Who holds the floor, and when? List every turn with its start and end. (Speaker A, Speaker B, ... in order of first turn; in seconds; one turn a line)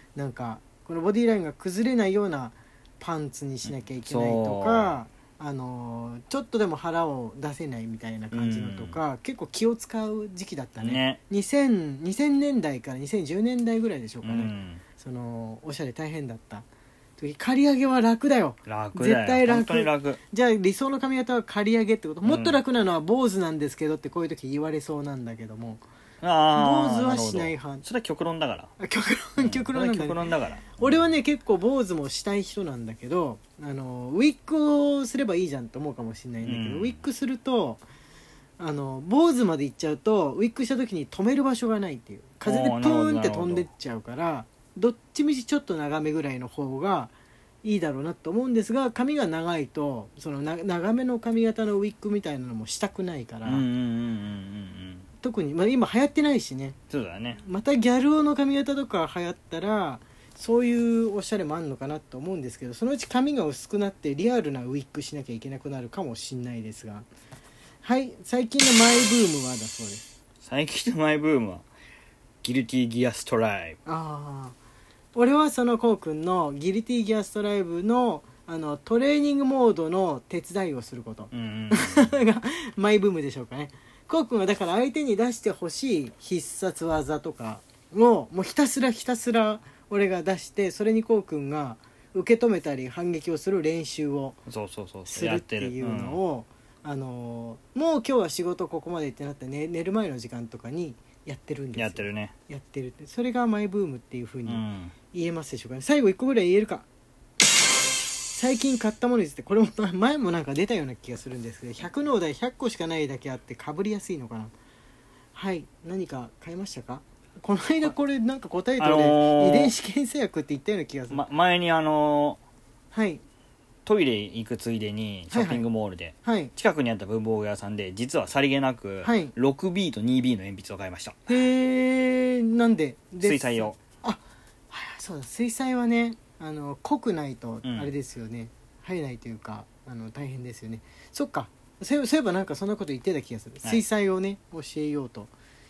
Speaker A: 0.1-16.6
Speaker B: 4.0-4.9
Speaker B: 8.3-9.0
Speaker B: 10.8-11.2
Speaker B: 14.2-14.8
Speaker A: 17.2-25.8
Speaker B: 18.7-20.2
Speaker B: 22.2-22.6
Speaker B: 26.2-28.7
Speaker A: 26.5-27.8
Speaker A: 28.8-37.8
Speaker B: 29.4-31.1
Speaker B: 36.4-37.0
Speaker A: 38.6-47.1
Speaker B: 42.4-43.7
Speaker A: 47.6-53.6
Speaker B: 53.5-55.1
Speaker A: 55.2-56.8
Speaker B: 56.9-57.4
Speaker A: 57.4-67.1
Speaker A: 67.8-70.0
Speaker B: 70.4-71.6
Speaker B: 72.4-73.8
Speaker A: 73.8-74.5
Speaker A: 75.1-94.4
Speaker B: 81.3-82.2
Speaker B: 94.5-96.2
Speaker A: 95.1-106.9
Speaker B: 101.8-102.3
Speaker B: 104.5-104.9
Speaker A: 108.3-114.5
Speaker A: 115.3-121.2
Speaker B: 118.8-119.7
Speaker B: 121.1-122.4
Speaker A: 122.9-123.2
Speaker B: 123.8-131.2
Speaker A: 125.3-125.6
Speaker A: 126.2-126.5
Speaker A: 129.0-129.3
Speaker A: 131.3-145.3
Speaker B: 133.2-133.7
Speaker B: 137.6-137.9